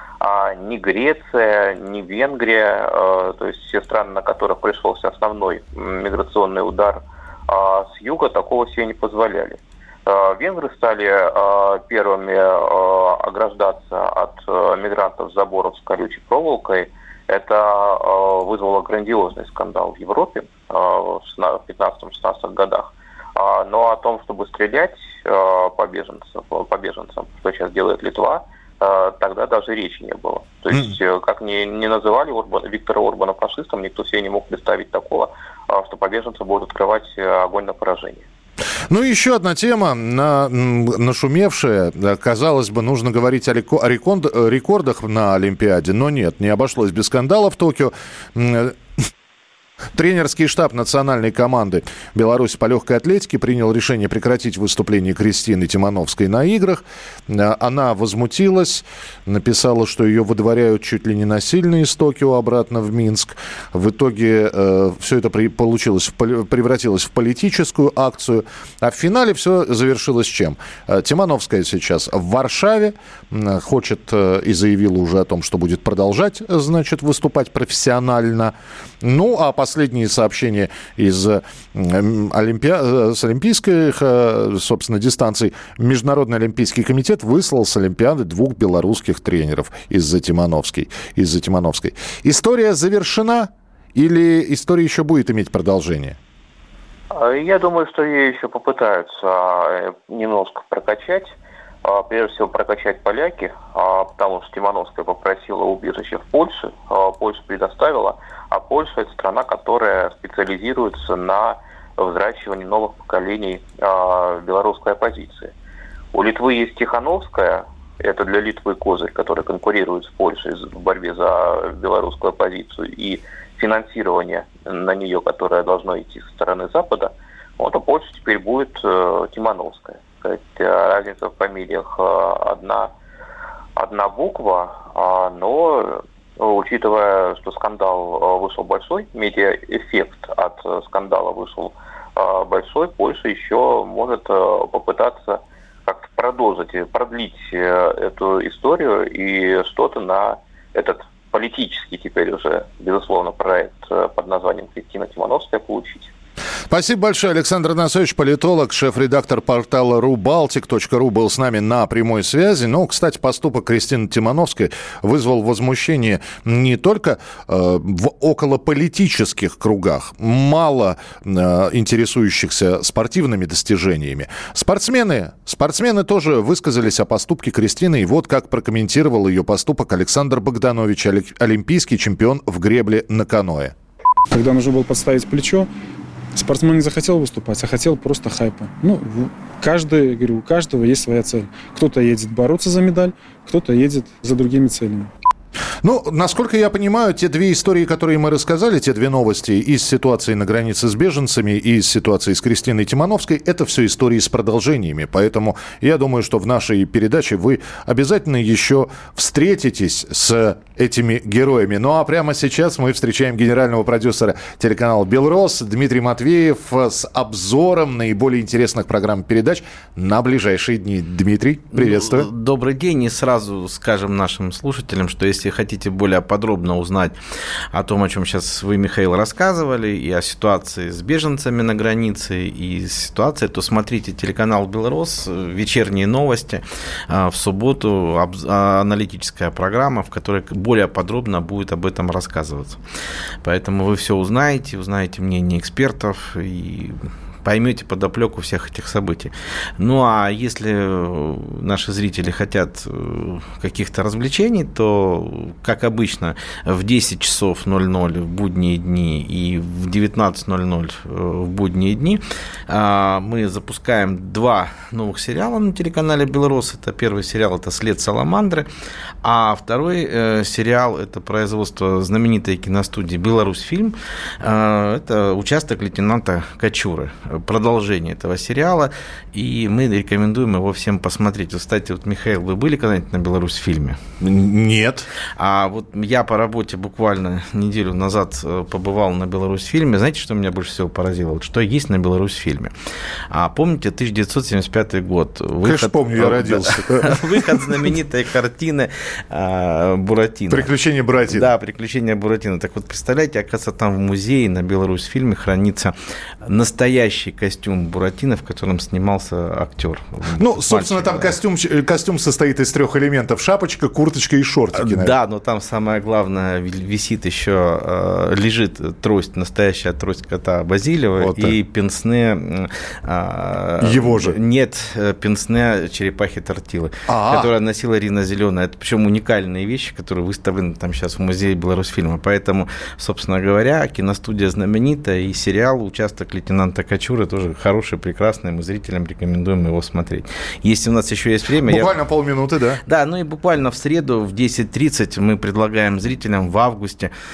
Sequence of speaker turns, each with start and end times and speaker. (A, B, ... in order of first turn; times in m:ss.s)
0:00.2-0:38.2 A
0:38.9-0:48.7 B
0:49.9-1:36.2 B
1:37.1-1:55.5 A
1:56.1-2:12.9 A
2:13.8-2:36.1 A
2:36.7-3:03.7 B
3:04.3-3:05.7 C
3:06.3-3:15.1 C
3:15.8-3:42.3 B
3:41.7-3:47.2 D
3:47.7-4:02.8 D
4:03.4-4:28.7 D
4:29.2-4:44.0 D
4:44.2-4:45.1 B
4:45.4-4:52.7 D
4:53.3-5:00.7 D
4:55.6-4:57.4 B
5:00.5-5:01.5 B
5:01.3-5:05.9 D
5:06.4-5:11.4 D
5:10.3-5:15.1 B
5:14.8-5:42.0 D
5:21.2-5:21.6 B
5:23.8-5:24.4 B
5:27.1-5:27.5 B
5:41.6-5:42.8 B
5:42.8-5:47.1 D